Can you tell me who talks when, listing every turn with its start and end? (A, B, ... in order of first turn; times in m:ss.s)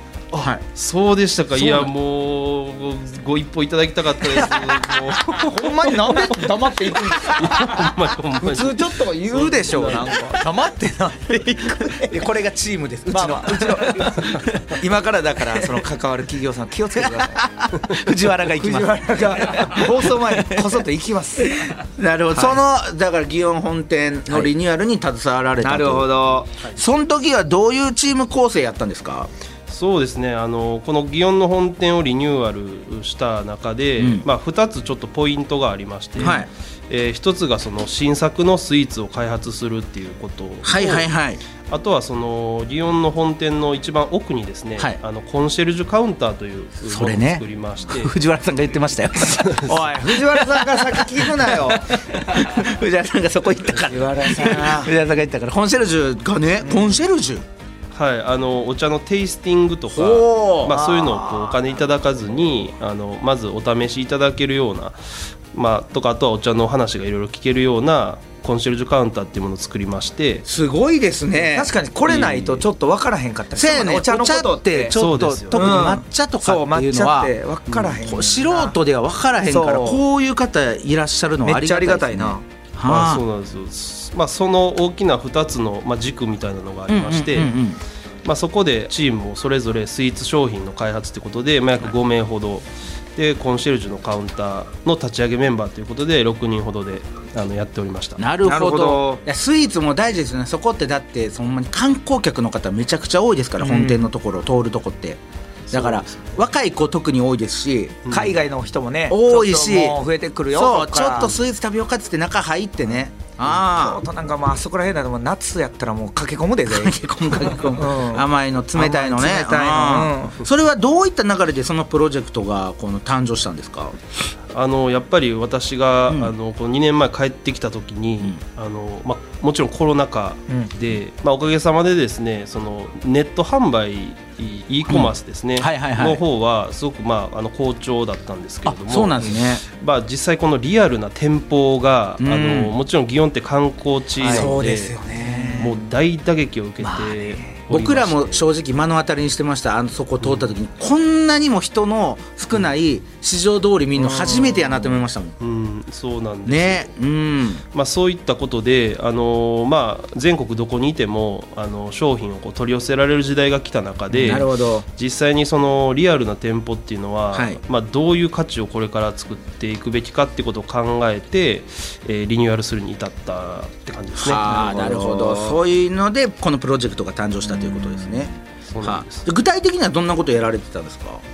0:00.3-0:00.6 A
0:00.4-0:06.0 B
0:01.6-0:01.9 C
0:04.4-0:12.2 C
0:07.3-0:10.1 B
0:12.0-0:14.8 A
0:13.1-0:17.5 C
0:15.5-0:15.8 A
0:16.9-0:20.8 A
0:18.4-0:21.7 C
0:21.8-0:26.1 A
0:22.3-0:22.6 C
0:25.6-0:26.5 C
0:26.7-0:29.3 A
0:29.7-0:41.1 B
0:34.0-0:34.2 A
0:36.2-0:36.5 A
0:40.6-0:41.4 A
0:41.7-0:48.1 B
0:46.8-0:57.4 A
0:49.2-0:49.7 B
0:49.6-0:51.9 C
0:53.8-0:54.9 C
0:56.6-0:57.0 C
0:57.9-1:10.4 B
0:59.9-1:01.6 A
1:10.4-1:12.3 A
1:11.5-1:15.0 C
1:13.5-1:17.3 A
1:14.9-1:15.8 B
1:15.5-1:18.7 C
1:17.9-1:23.2 A
1:19.4-1:20.0 C
1:21.4-1:22.4 C
1:22.8-1:27.5 B
1:26.9-1:27.8 A
1:28.2-1:38.2 B
1:38.2-1:48.0 A
1:38.4-1:39.2 C
1:43.6-1:44.1 C
1:45.7-1:46.3 B
1:48.0-1:48.3 B
1:48.1-1:51.4 C
1:49.1-1:50.0 A
1:50.5-1:54.0 A
1:53.4-2:00.4 C
1:56.7-2:04.0 A
2:04.5-2:24.9 B
2:06.1-2:06.3 A
2:14.9-2:16.2 A
2:18.6-2:19.6 A
2:22.2-2:22.7 A
2:24.2-2:25.8 C
2:24.2-2:25.7 A
2:25.6-2:28.4 B
2:26.8-2:27.5 C
2:27.7-2:35.3 A
2:34.0-2:34.9 C
2:35.4-2:36.9 B
2:36.4-2:37.6 A
2:37.7-2:54.4 B
2:44.1-2:44.8 A
2:47.3-2:47.6 A
2:54.2-3:01.2 A
2:54.3-2:55.5 C
2:58.7-2:59.2 B